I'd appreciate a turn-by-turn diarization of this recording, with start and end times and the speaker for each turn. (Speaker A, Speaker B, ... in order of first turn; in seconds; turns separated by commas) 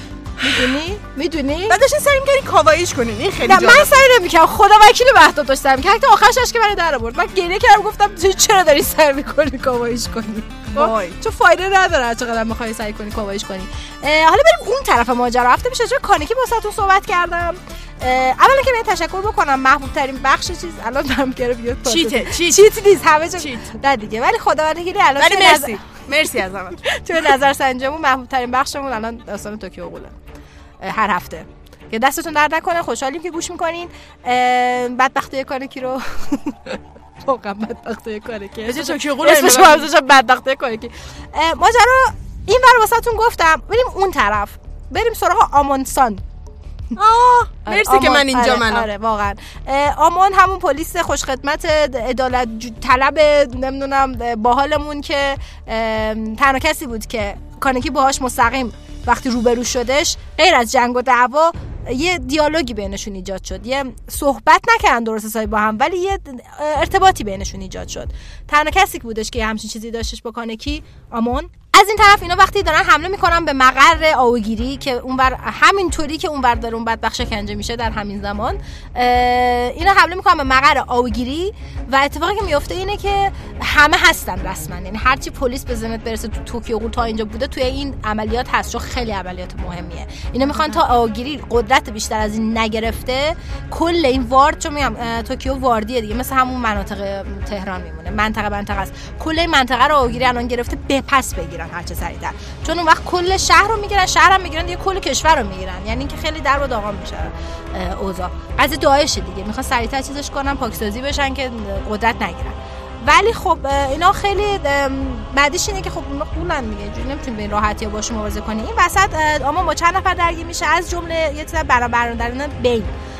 Speaker A: 0.4-1.8, Speaker B: 0.4-0.7, Speaker B: 1.7-4.0, Speaker A: 3.4-25.8, Speaker B: 10.7-11.2, Speaker B: 21.8-22.7, Speaker B: 23.4-23.7, Speaker B: 25.2-26.8, Speaker A: 26.9-30.1, Speaker A: 30.8-46.2, Speaker B: 38.6-39.9, Speaker B: 47.0-48.9, Speaker A: 47.6-122.9